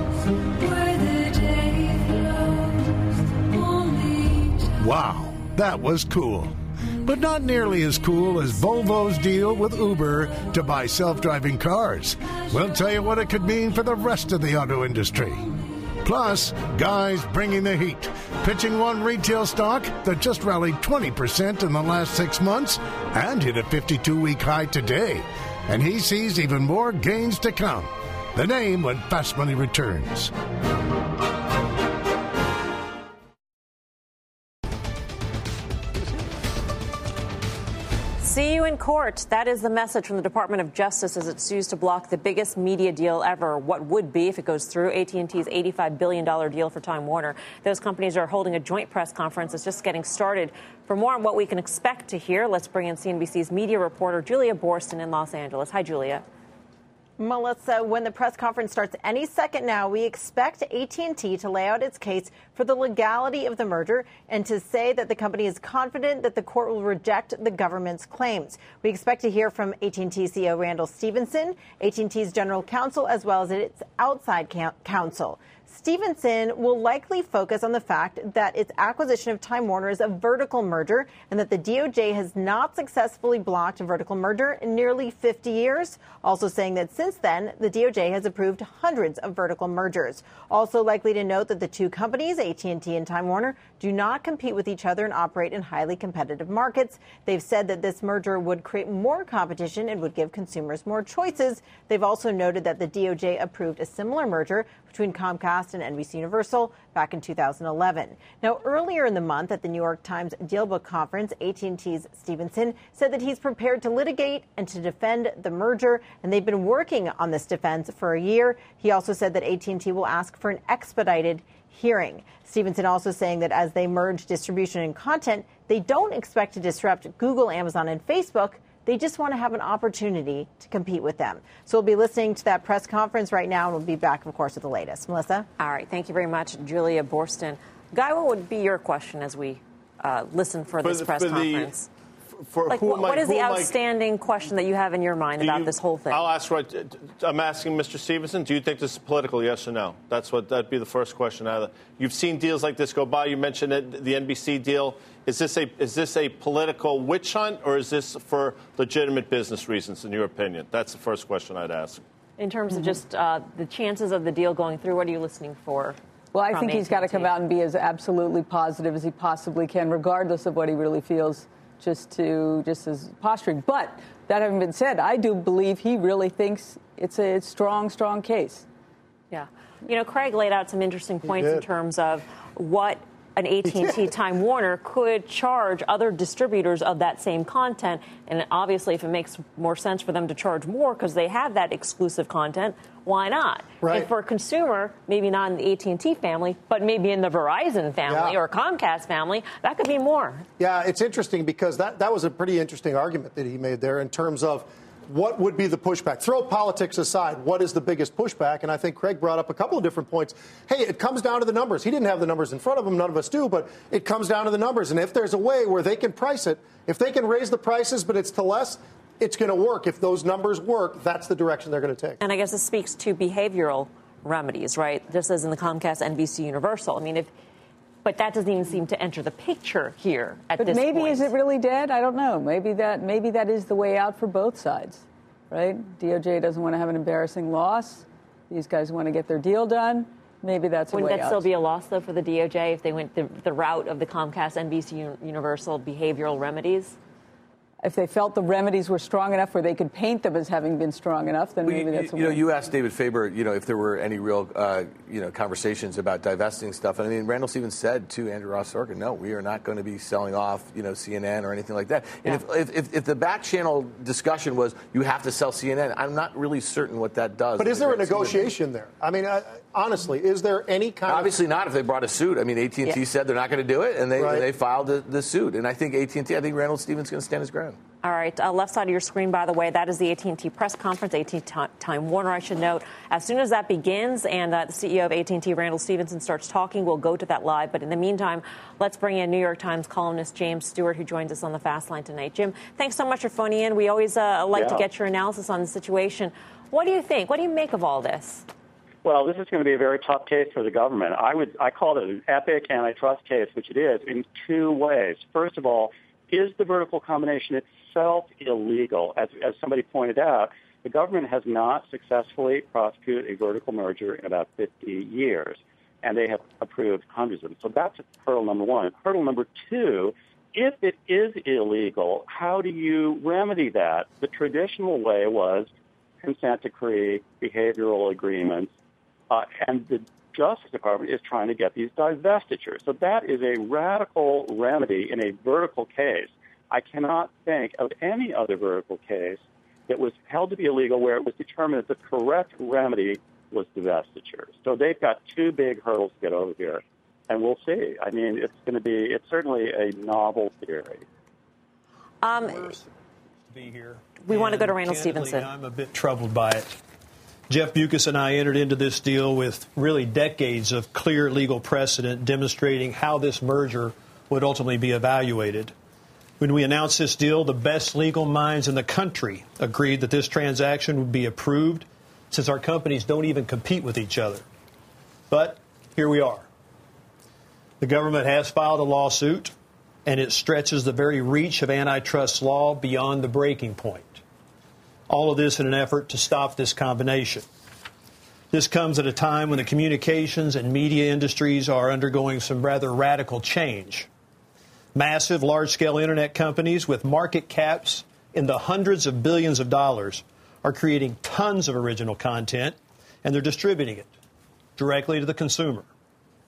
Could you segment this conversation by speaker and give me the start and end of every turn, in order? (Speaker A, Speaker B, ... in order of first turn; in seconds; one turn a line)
Speaker A: 4.8-15.5
Speaker A: 16.0-30.3
Speaker B: 38.2-56.2
Speaker C: 57.2-135.5
Speaker B: 135.6-141.9
Speaker D: 140.8-141.7
Speaker D: 142.4-143.7
Speaker B: 142.7-146.2
Speaker D: 145.4-162.0
Speaker B: 162.4-166.0
Speaker E: 166.3-178.6
Speaker B: 166.5-167.3
Speaker B: 179.3-200.4
Speaker F: 181.3-181.6
Speaker F: 193.8-194.1
Speaker F: 198.1-198.4
Speaker F: 200.6-222.2
Speaker B: 222.2-227.3
Speaker B: 228.0-231.3
Speaker E: 230.6-241.4
Speaker B: 240.9-246.9
Speaker E: 247.8-252.4
Speaker G: 251.6-268.5
Speaker F: 267.6-271.4
Speaker G: 271.0-277.8
Speaker F: 274.1-274.5
Speaker B: 278.0-298.4
Speaker H: 294.5-294.8
Speaker H: 299.0-328.7
Speaker H: 329.3-351.1
Speaker B: 352.2-352.8
Speaker I: 352.5-352.8
Speaker I: 353.5-356.8
Speaker B: 354.2-355.5
Speaker I: 357.5-365.7
Speaker I: 366.4-374.4
Speaker I: 375.3-376.5
Speaker I: 377.8-379.5
Speaker I: 380.0-384.2
Speaker I: 385.1-387.4
Speaker I: 388.5-394.1
Speaker I: 394.9-404.1
Speaker I: 404.8-405.9